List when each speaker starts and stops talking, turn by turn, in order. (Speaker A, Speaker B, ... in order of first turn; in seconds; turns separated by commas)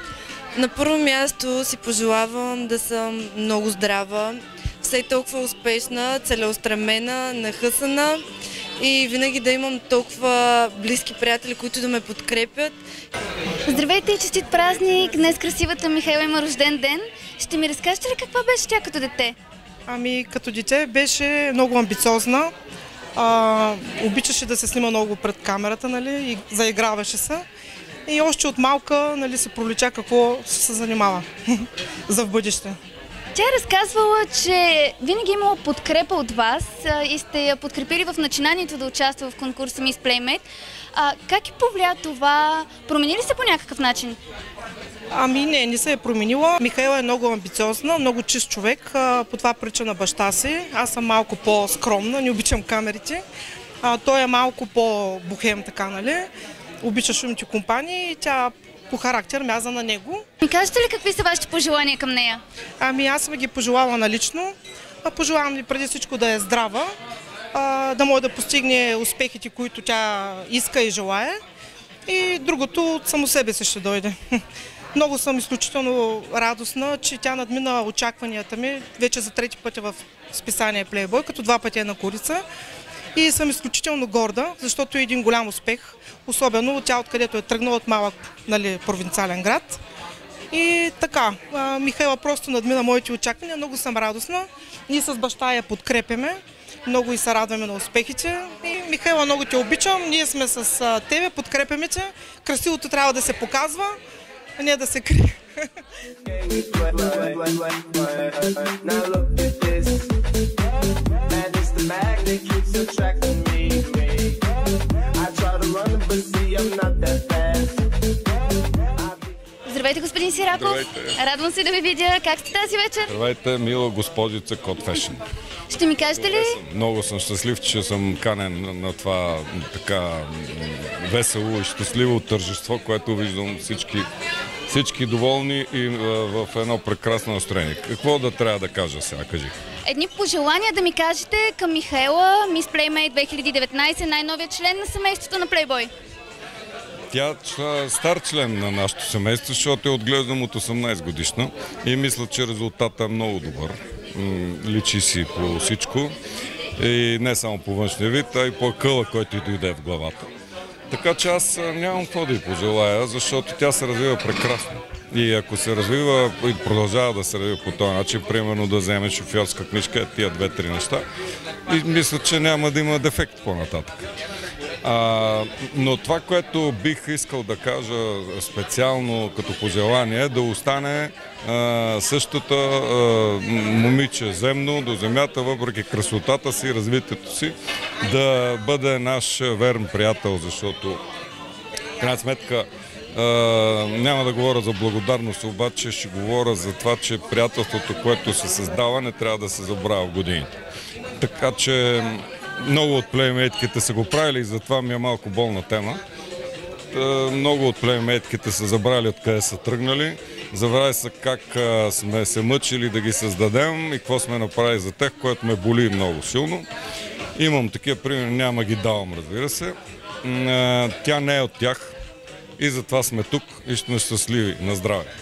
Speaker A: 0.6-8.2, Speaker A: 8.8-12.7, Speaker B: 13.7-19.4, Speaker C: 19.9-22.5, Speaker C: 23.1-27.4, Speaker C: 28.1-31.3, Speaker C: 32.1-32.8, Speaker B: 33.3-44.2, Speaker C: 45.1-53.2, Speaker C: 53.8-56.3, Speaker C: 56.8-60.2, Speaker B: 60.4-62.4, Speaker C: 62.8-66.9, Speaker C: 67.5-71.4, Speaker C: 72.1-74.4, Speaker C: 74.9-82.4, Speaker C: 83.2-89.8, Speaker C: 90.5-104.0, Speaker C: 104.6-105.7, Speaker D: 106.2-110.1, Speaker D: 111.3-114.5, Speaker D: 115.2-117.8, Speaker D: 119.0-119.3, Speaker B: 119.7-123.1, Speaker E: 120.5-121.2, Speaker E: 123.1-125.2, Speaker B: 125.7-126.6, Speaker E: 126.1-134.1, Speaker E: 134.7-139.5, Speaker B: 139.8-145.9, Speaker E: 147.1-156.1, Speaker E: 156.8-160.3, Speaker E: 160.9-171.1, Speaker E: 171.7-174.1, Speaker E: 174.8-187.5, Speaker E: 188.1-191.0, Speaker E: 192.0-200.5, Speaker E: 201.2-206.0, Speaker E: 206.9-216.7, Speaker E: 217.3-221.9, Speaker E: 222.6-225.1